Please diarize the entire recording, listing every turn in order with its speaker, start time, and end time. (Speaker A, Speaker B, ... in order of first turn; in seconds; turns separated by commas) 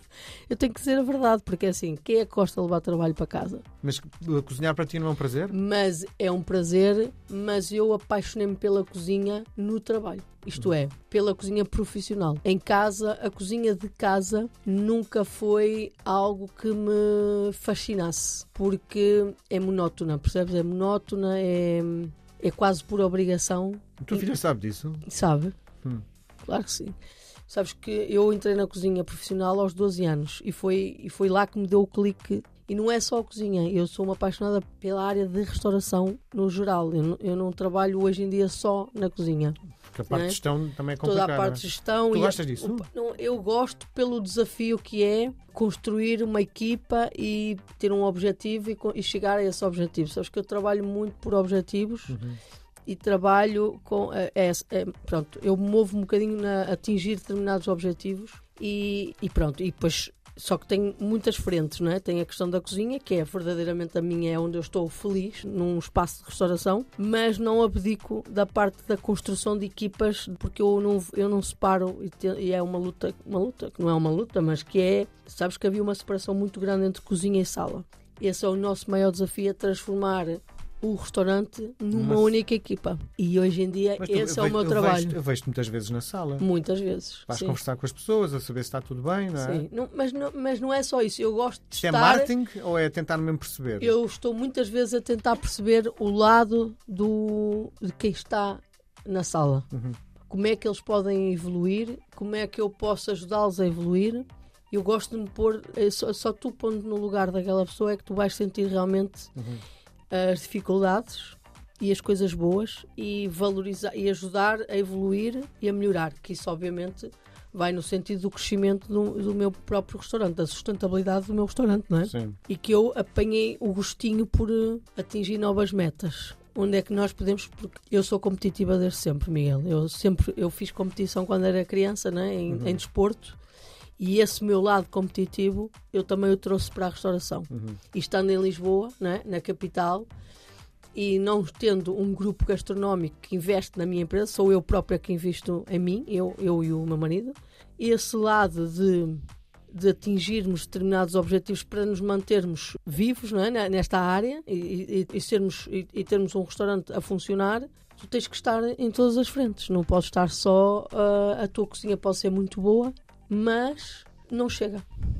Speaker A: 0.5-3.6, Speaker B: 3.8-5.5, Speaker A: 5.5-24.3, Speaker B: 24.0-25.1, Speaker A: 25.1-25.6, Speaker A: 26.4-27.0, Speaker A: 27.5-39.6, Speaker B: 40.0-42.9, Speaker A: 40.1-40.4, Speaker A: 41.0-52.2, Speaker B: 52.1-52.4, Speaker A: 52.9-85.2, Speaker B: 81.9-82.3, Speaker B: 84.0-86.5, Speaker A: 86.4-87.6, Speaker B: 87.3-89.7, Speaker A: 89.4-92.3, Speaker B: 91.8-94.0, Speaker A: 93.8-99.7, Speaker B: 99.7-100.0, Speaker A: 100.3-109.3, Speaker B: 109.4-109.6, Speaker A: 110.1-133.4, Speaker B: 122.1-122.4, Speaker B: 132.5-132.8, Speaker A: 134.0-140.1, Speaker B: 137.5-137.8, Speaker A: 140.9-164.9